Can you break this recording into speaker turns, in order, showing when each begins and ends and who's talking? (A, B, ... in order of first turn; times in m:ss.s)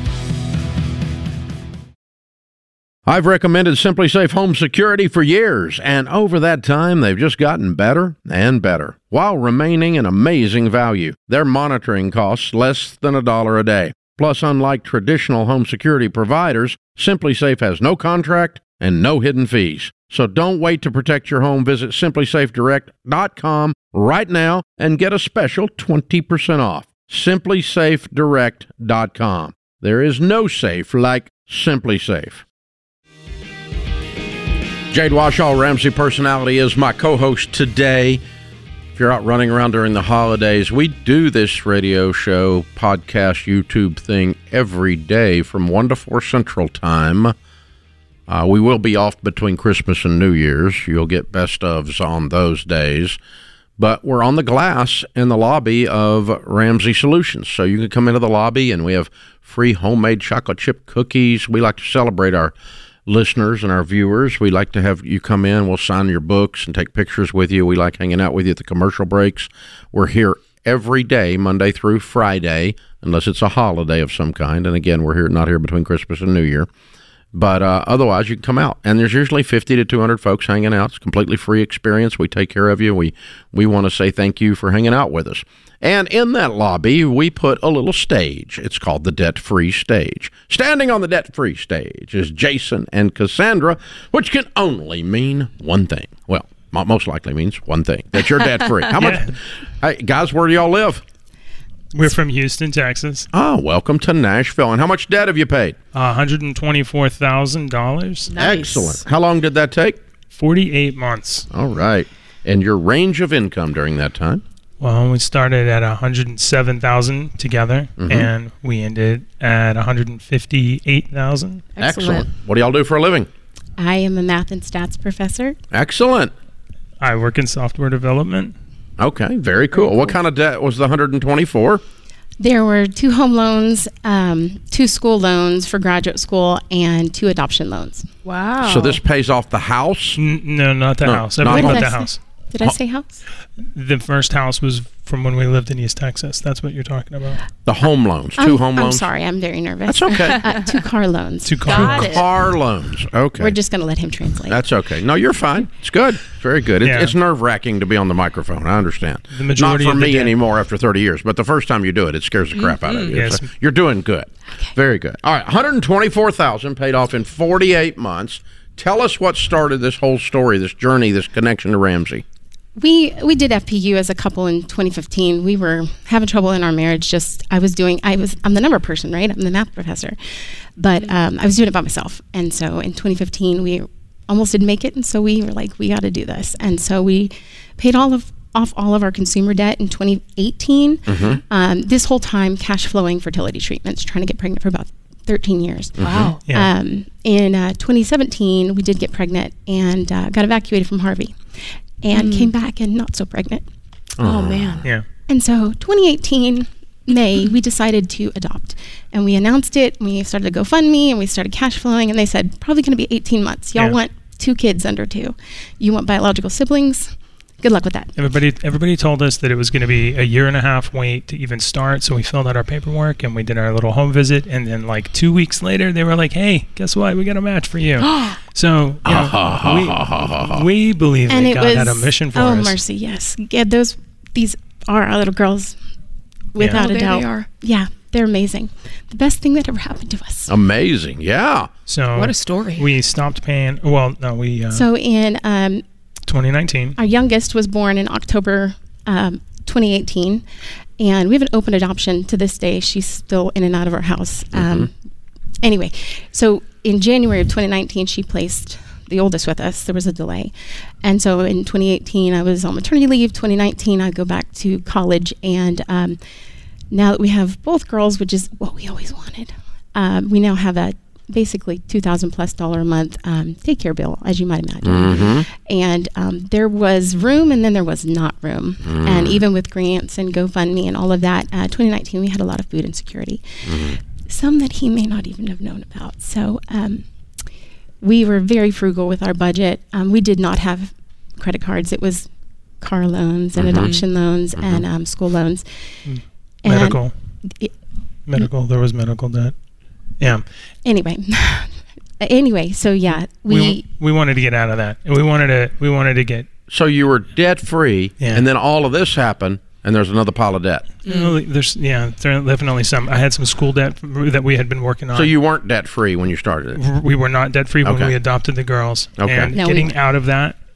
0:03.1-0:32.4 A
0:34.9-0:38.2 A
0:39.0-0:47.4 A
0:48.3-0:53.2 A
0:53.8-1:02.5 A
1:03.1-1:16.7 A
1:17.3-1:41.0 A
1:39.0-1:39.3 B
1:41.9-1:43.3 B
1:43.3-1:45.8 A
1:45.9-1:48.3 B
1:48.3-1:49.0 C
1:48.4-1:50.0 A
1:50.3-1:51.5 B
1:51.5-1:54.4 A
1:54.8-2:01.7 B
1:58.0-1:58.3 A
2:01.8-2:02.3 C
2:01.8-2:03.3 A
2:03.8-2:05.6 D
2:05.7-2:06.3 A
2:07.0-2:08.6 B
2:09.0-2:11.8 A
2:12.4-2:18.1 D
2:18.2-2:19.0 C
2:18.6-2:20.2 A
2:20.2-2:22.2 B
2:21.0-2:21.9 A
2:21.4-2:23.2 D
2:23.6-2:27.4 B
2:27.6-2:29.1 A
2:28.4-2:32.2 D
2:29.9-2:30.5 A
2:31.4-2:32.2 B
2:31.7-2:33.6 A
2:33.4-2:34.6 D
2:34.5-2:52.2 A
2:36.8-2:37.1 B
2:39.3-2:40.3 B
2:42.6-2:43.1 C
2:43.1-2:43.5 B
2:52.8-3:00.2 D
3:00.8-3:23.6 D
3:11.1-3:11.4 A
3:16.0-3:16.4 A
3:16.0-3:16.4 C
3:16.4-3:16.7 B
3:22.1-3:22.5 C
3:24.2-3:24.9 A
3:24.2-3:24.8 C
3:25.3-3:38.1 D
3:38.2-3:52.8 B
3:48.0-3:48.4 C
3:49.0-3:50.7 A
3:51.3-3:55.8 D
3:56.5-4:00.5 D
3:56.7-3:57.5 C
4:00.5-4:01.7 A
4:01.9-4:04.8 B
4:02.2-4:02.9 C
4:04.7-4:05.8 D
4:06.3-4:07.0 B
4:07.0-4:10.4 D
4:11.0-4:14.9 D
4:14.5-4:14.9 A
4:15.6-4:20.5 D
4:21.0-4:26.2 D
4:26.9-4:47.1 D
4:34.8-4:35.5 A
4:38.8-4:39.4 A
4:43.6-4:44.0 A
4:48.0-4:56.0 D
4:53.6-4:53.9 A
4:54.6-4:54.8 A
4:56.1-4:57.2 B
4:56.6-4:57.7 D
4:58.3-4:59.6 B
5:00.2-5:00.5 B
5:00.8-5:03.8 D
5:03.5-5:06.5 B
5:06.7-5:10.9 A
5:08.2-5:08.5 B
5:11.0-5:15.3 B
5:11.1-5:11.4 C
5:15.1-5:16.8 A
5:16.8-5:20.6 B
5:17.8-5:18.2 A
5:19.2-5:19.6 A
5:19.6-5:19.9 D